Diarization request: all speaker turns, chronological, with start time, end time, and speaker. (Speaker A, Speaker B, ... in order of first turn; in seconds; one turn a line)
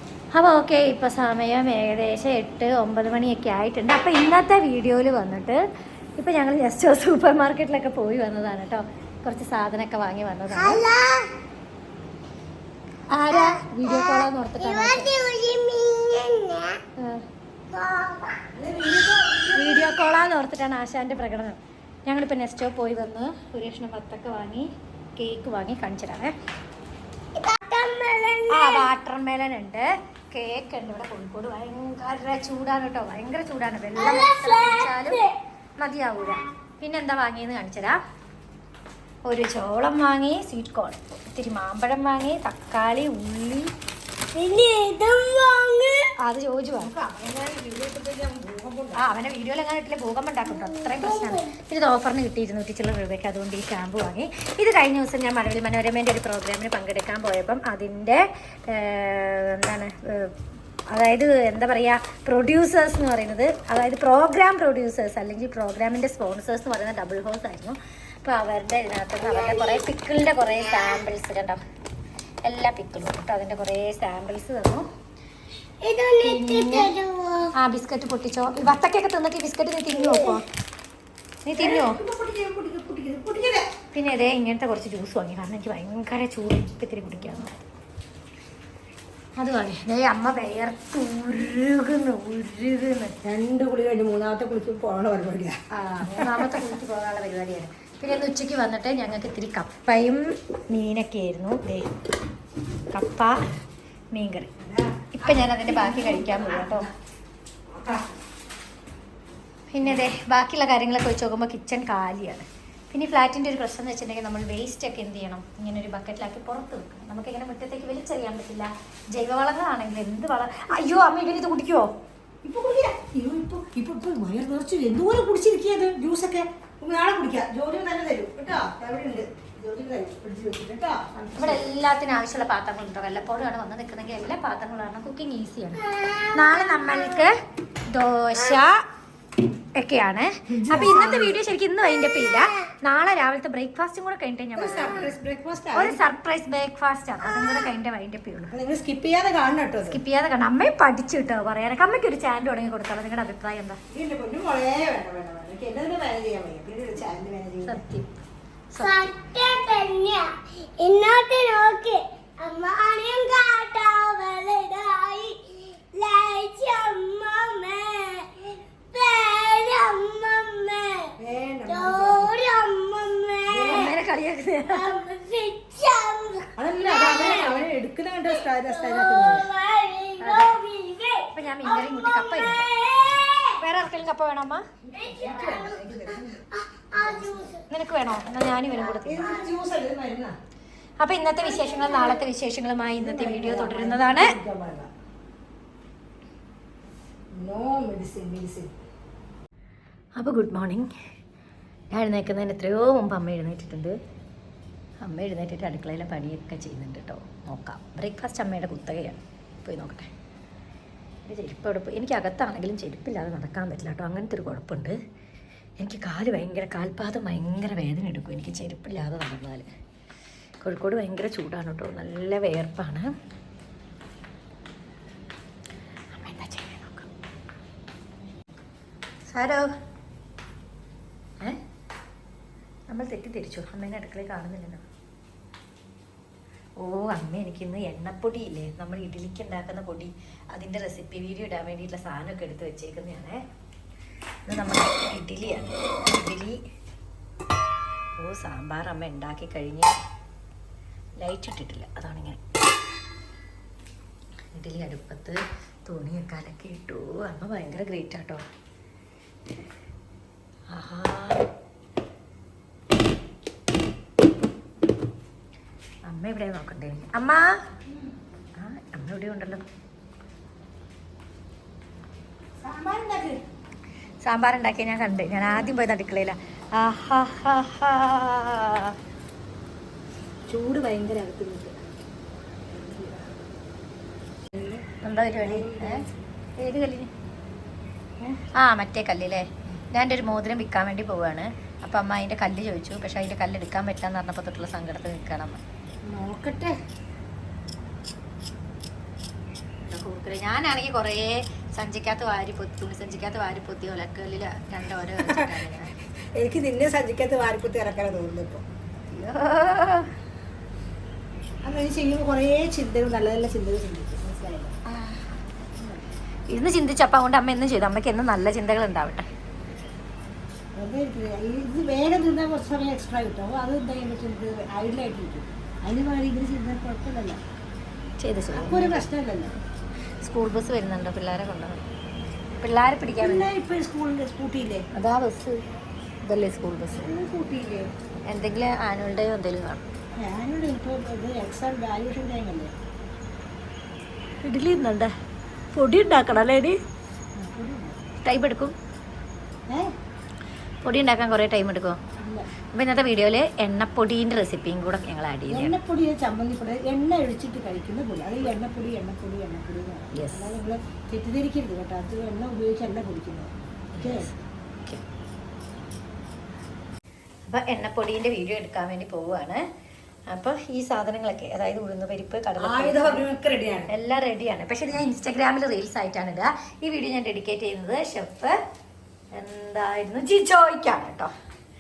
Speaker A: 0.3-5.6
Speaker A: 6.2-10.8
Speaker B: 10.5-11.3
Speaker A: 13.1-15.1
Speaker B: 13.3-16.8
Speaker A: 17.0-17.2
Speaker B: 17.7-18.4
Speaker C: 18.5-19.9
Speaker A: 19.5-26.3
Speaker B: 27.3-28.9
Speaker A: 28.5-35.2
Speaker B: 34.0-35.3
Speaker A: 35.8-38.0
Speaker A: 39.3-43.7
Speaker B: 44.3-46.1
Speaker A: 46.2-46.9
Speaker C: 46.8-49.0
Speaker A: 49.0-60.3
Speaker B: 50.6-51.5
Speaker A: 60.9-71.6
Speaker B: 69.3-69.8
Speaker A: 72.4-74.8
Speaker B: 75.8-77.5
Speaker A: 76.2-76.9
Speaker A: 77.5-80.4
Speaker B: 80.0-80.4
Speaker A: 81.4-82.0
Speaker C: 81.6-83.7
Speaker A: 83.9-87.5
Speaker A: 89.4-93.1
Speaker C: 93.2-96.7
Speaker A: 95.7-101.9
Speaker A: 102.9-103.3
Speaker A: 104.1-104.5
Speaker C: 104.6-106.9
Speaker A: 105.1-106.9
Speaker C: 107.8-108.1
Speaker A: 109.7-121.9
Speaker C: 122.4-131.7
Speaker A: 131.4-137.3
Speaker B: 135.9-137.2
Speaker A: 137.9-138.8
Speaker A: 139.7-145.1
Speaker C: 140.5-141.4
Speaker C: 144.6-146.0
Speaker A: 145.7-148.5
Speaker C: 148.5-150.0
Speaker A: 149.9-153.8
Speaker C: 153.9-157.8
Speaker A: 157.6-158.1
Speaker A: 158.7-159.1
Speaker B: 158.8-171.1
Speaker C: 171.2-172.3
Speaker B: 171.7-173.9
Speaker C: 173.5-173.9
Speaker A: 173.7-174.9
Speaker B: 174.7-177.7
Speaker C: 176.6-179.5
Speaker B: 178.3-183.6
Speaker A: 180.2-180.5
Speaker A: 181.3-182.7
Speaker A: 183.6-184.6
Speaker C: 184.9-186.4
Speaker B: 184.9-187.6
Speaker C: 186.9-187.5
Speaker A: 187.7-189.3
Speaker B: 189.0-189.4
Speaker C: 189.0-190.3
Speaker A: 191.0-194.3
Speaker B: 191.4-192.2
Speaker C: 193.0-194.9
Speaker C: 197.3-198.7
Speaker A: 200.2-200.9
Speaker A: 201.9-203.9
Speaker A: 205.0-210.1
Speaker A: 211.2-215.0
Speaker A: 215.8-219.7
Speaker A: 220.6-223.1
Speaker A: 226.1-227.1
Speaker A: 229.3-229.7
Speaker A: 232.9-234.8
Speaker A: 236.8-243.4
Speaker A: 244.5-246.6
Speaker A: 248.2-249.9
Speaker A: 251.2-252.4
Speaker A: 254.5-258.4
Speaker A: 260.7-261.4
Speaker A: 266.1-267.5
Speaker A: 268.6-269.6
Speaker C: 272.6-273.4
Speaker A: 274.2-278.9
Speaker C: 280.5-281.8
Speaker C: 282.7-283.4
Speaker C: 284.5-284.8
Speaker A: 285.0-286.0
Speaker C: 285.4-286.1
Speaker A: 286.6-287.1
Speaker A: 288.2-295.6
Speaker C: 296.1-296.8
Speaker A: 299.8-305.9
Speaker C: 305.2-305.7
Speaker C: 306.3-308.6
Speaker A: 309.1-310.1
Speaker C: 311.6-314.8
Speaker A: 314.9-315.3
Speaker C: 315.8-316.0
Speaker A: 316.5-319.2
Speaker C: 320.7-327.4
Speaker A: 328.2-329.1
Speaker C: 328.5-329.6
Speaker A: 330.2-331.8
Speaker A: 332.5-333.5
Speaker C: 333.2-334.9
Speaker A: 334.9-335.6
Speaker A: 336.2-337.1
Speaker C: 336.9-337.9
Speaker A: 338.3-339.9
Speaker C: 340.1-342.7
Speaker A: 344.4-345.1
Speaker A: 345.7-346.8
Speaker C: 347.4-348.1
Speaker A: 348.2-348.7
Speaker A: 350.8-352.0
Speaker C: 352.2-352.5
Speaker A: 352.7-355.8
Speaker C: 355.5-364.3
Speaker A: 360.1-360.6
Speaker A: 363.9-364.3
Speaker A: 367.5-369.6
Speaker A: 370.3-373.2
Speaker C: 372.6-373.9
Speaker A: 373.9-378.6
Speaker A: 379.3-381.3